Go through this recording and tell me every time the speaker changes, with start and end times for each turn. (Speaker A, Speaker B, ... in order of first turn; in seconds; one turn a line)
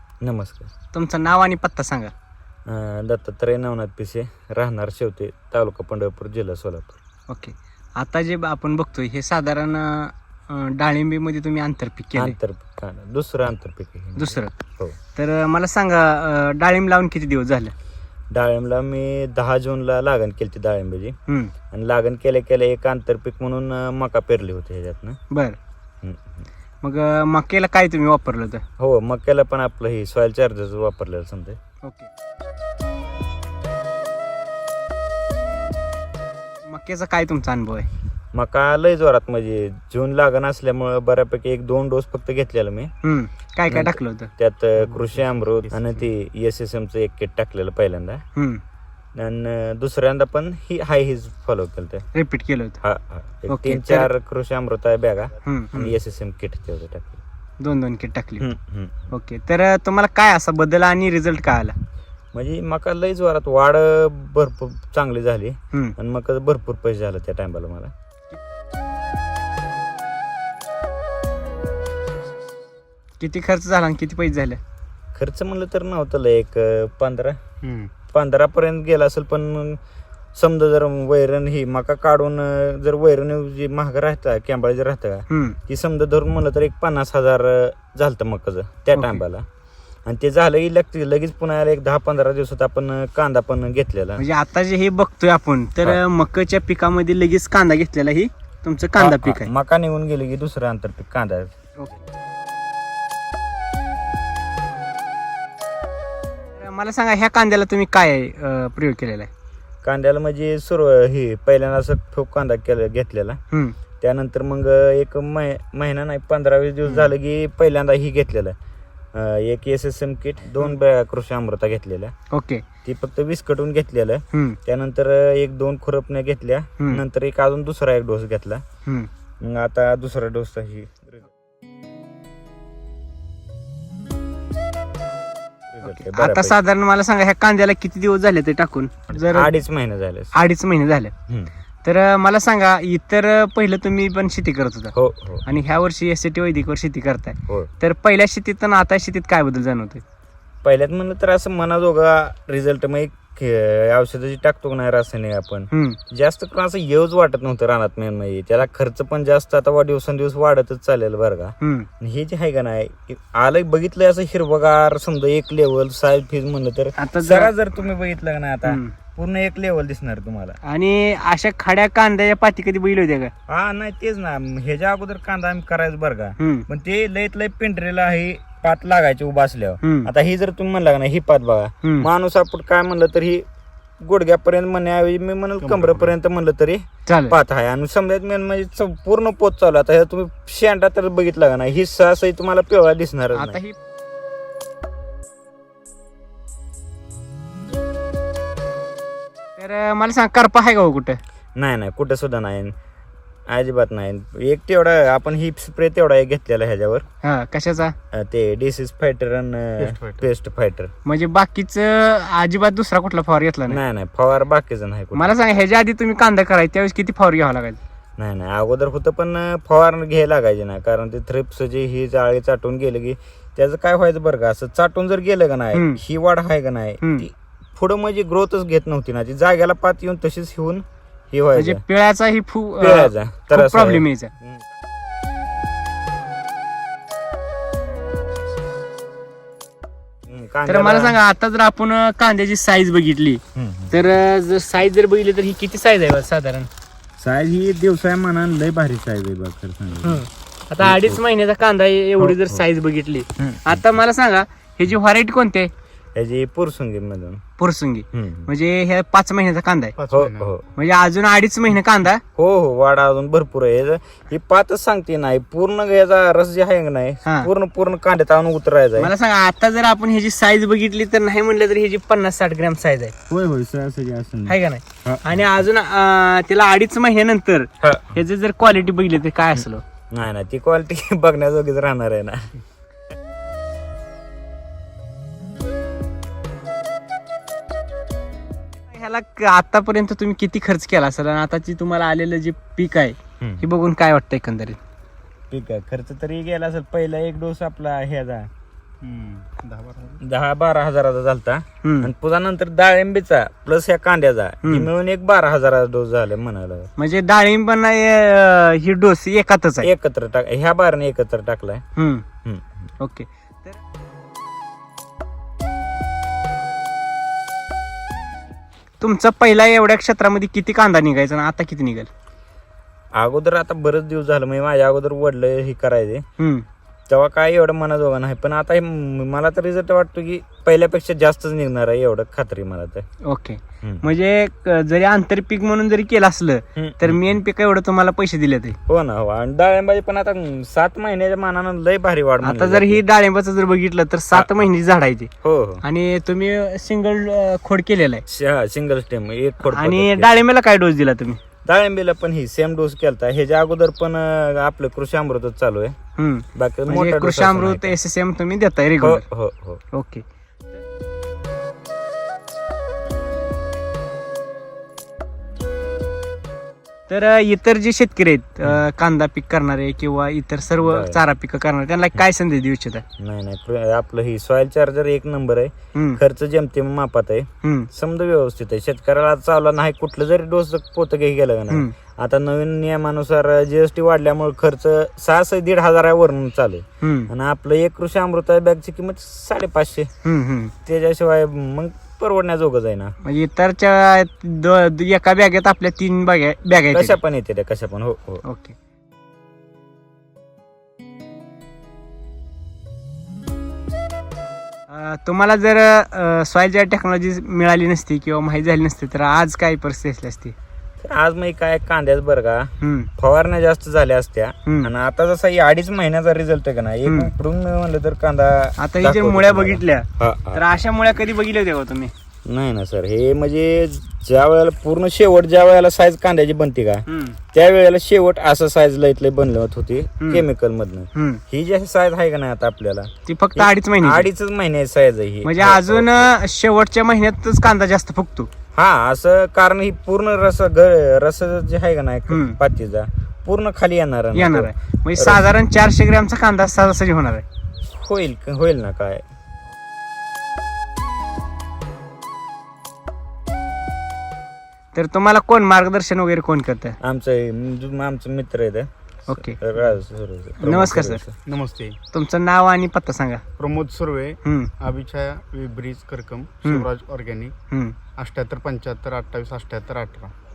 Speaker A: 0.2-0.7
Speaker B: 0.9-2.1
Speaker A: 2.7-7.0
Speaker B: 7.3-12.4
Speaker A: 12.2-15.0
Speaker B: 14.2-14.6
Speaker B: 15.1-17.7
Speaker A: 18.3-21.1
Speaker B: 21.3-21.5
Speaker A: 21.7-25.2
Speaker B: 25.3-25.6
Speaker A: 26.0-26.5
Speaker B: 26.8-28.6
Speaker A: 28.8-31.6
Speaker B: 31.8-32.1
Speaker B: 36.7-37.9
Speaker A: 38.3-42.9
Speaker B: 43.0-44.3
Speaker A: 43.7-48.2
Speaker C: 44.8-45.7
Speaker B: 48.4-48.6
Speaker A: 49.1-52.1
Speaker B: 52.1-52.8
Speaker A: 52.8-57.2
Speaker B: 53.5-54.1
Speaker B: 55.4-55.9
Speaker B: 57.6-58.5
Speaker A: 58.4-59.1
Speaker B: 59.1-61.8
Speaker A: 62.3-67.9
Speaker B: 73.2-74.6
Speaker A: 75.2-77.4
Speaker C: 77.6-77.9
Speaker A: 78.1-79.8
Speaker A: 80.3-89.5
Speaker B: 85.3-85.6
Speaker B: 89.0-89.2
Speaker A: 90.1-94.2
Speaker B: 94.2-99.5
Speaker A: 99.0-101.5
Speaker B: 106.6-109.3
Speaker A: 109.8-113.4
Speaker B: 113.5-113.8
Speaker A: 114.0-118.6
Speaker A: 119.1-122.1
Speaker B: 122.3-122.6
Speaker A: 122.8-128.6
Speaker B: 124.3-124.6
Speaker A: 129.4-131.3
Speaker A: 135.7-136.6
Speaker B: 135.8-139.5
Speaker A: 139.1-140.3
Speaker B: 140.3-141.1
Speaker A: 141.3-141.5
Speaker B: 141.8-144.9
Speaker A: 144.9-145.4
Speaker B: 145.4-150.0
Speaker A: 150.6-170.6
Speaker B: 155.7-156.0
Speaker B: 161.6-161.9
Speaker B: 167.0-167.5
Speaker B: 168.7-168.9
Speaker B: 170.6-173.3
Speaker A: 173.5-183.4
Speaker B: 176.4-176.7
Speaker B: 179.8-180.1
Speaker B: 181.8-182.1
Speaker A: 184.0-193.6
Speaker C: 185.6-186.1
Speaker B: 187.1-187.4
Speaker B: 193.3-193.8
Speaker B: 199.6-201.2
Speaker A: 201.6-202.7
Speaker A: 203.5-207.1
Speaker B: 207.2-207.9
Speaker A: 208.1-210.9
Speaker C: 209.8-210.2
Speaker B: 211.1-213.8
Speaker A: 213.7-215.3
Speaker B: 215.1-217.8
Speaker A: 218.2-231.8
Speaker B: 225.7-226.0
Speaker B: 227.0-227.3
Speaker B: 231.6-234.3
Speaker A: 232.8-234.7
Speaker A: 240.3-241.2
Speaker B: 240.7-246.7
Speaker A: 243.6-244.0
Speaker A: 247.2-250.2
Speaker B: 250.0-255.7
Speaker A: 250.8-251.2
Speaker A: 252.2-252.7
Speaker A: 253.4-253.9
Speaker A: 256.1-257.4
Speaker B: 257.6-259.9
Speaker A: 258.1-258.5
Speaker C: 260.0-260.5
Speaker A: 260.1-260.6
Speaker B: 260.7-262.2
Speaker A: 262.4-269.1
Speaker B: 269.0-273.1
Speaker A: 273.3-275.4
Speaker B: 274.5-279.8
Speaker A: 277.8-278.2
Speaker A: 279.6-282.5
Speaker B: 288.9-294.8
Speaker A: 293.4-293.7
Speaker A: 295.5-298.5
Speaker C: 299.0-300.2
Speaker A: 300.2-306.9
Speaker B: 301.8-302.1
Speaker B: 304.6-304.9
Speaker B: 307.0-309.9
Speaker A: 309.8-311.8
Speaker B: 312.0-312.3
Speaker A: 312.4-312.8
Speaker B: 313.0-313.8
Speaker B: 319.0-322.1
Speaker A: 323.1-326.2
Speaker B: 326.4-326.6
Speaker A: 327.1-333.1
Speaker B: 333.2-338.8
Speaker A: 336.8-337.4
Speaker A: 338.9-343.0
Speaker B: 342.4-345.3
Speaker A: 344.3-344.7
Speaker A: 345.4-345.8
Speaker B: 345.8-348.2
Speaker A: 348.3-350.4
Speaker B: 349.6-351.4
Speaker A: 351.6-355.9
Speaker B: 356.2-359.2
Speaker A: 356.6-358.0
Speaker A: 359.0-359.8
Speaker B: 359.9-360.2
Speaker B: 367.1-373.0
Speaker A: 370.8-371.2
Speaker A: 373.2-390.1
Speaker B: 375.9-376.2
Speaker B: 377.6-377.9
Speaker B: 387.0-387.3
Speaker B: 390.2-390.7
Speaker A: 390.9-393.2
Speaker B: 393.2-397.2
Speaker A: 396.9-398.4
Speaker B: 398.4-398.8
Speaker B: 404.9-410.6
Speaker A: 411.0-420.6
Speaker B: 412.8-413.1
Speaker B: 414.7-414.9
Speaker B: 417.1-417.3
Speaker B: 418.8-422.1
Speaker A: 422.5-436.4
Speaker B: 427.1-427.4
Speaker B: 430.2-430.4
Speaker B: 431.1-431.4
Speaker B: 433.3-434.3
Speaker B: 435.4-438.5
Speaker A: 438.8-445.4
Speaker B: 442.3-442.6
Speaker B: 444.3-447.4
Speaker A: 447.8-449.2
Speaker B: 454.9-457.0
Speaker A: 457.0-461.4
Speaker B: 459.3-459.6
Speaker B: 460.6-461.2
Speaker C: 461.5-462.0
Speaker B: 462.1-463.4
Speaker C: 463.6-467.5
Speaker B: 464.4-464.7
Speaker B: 467.7-468.0
Speaker C: 468.2-470.3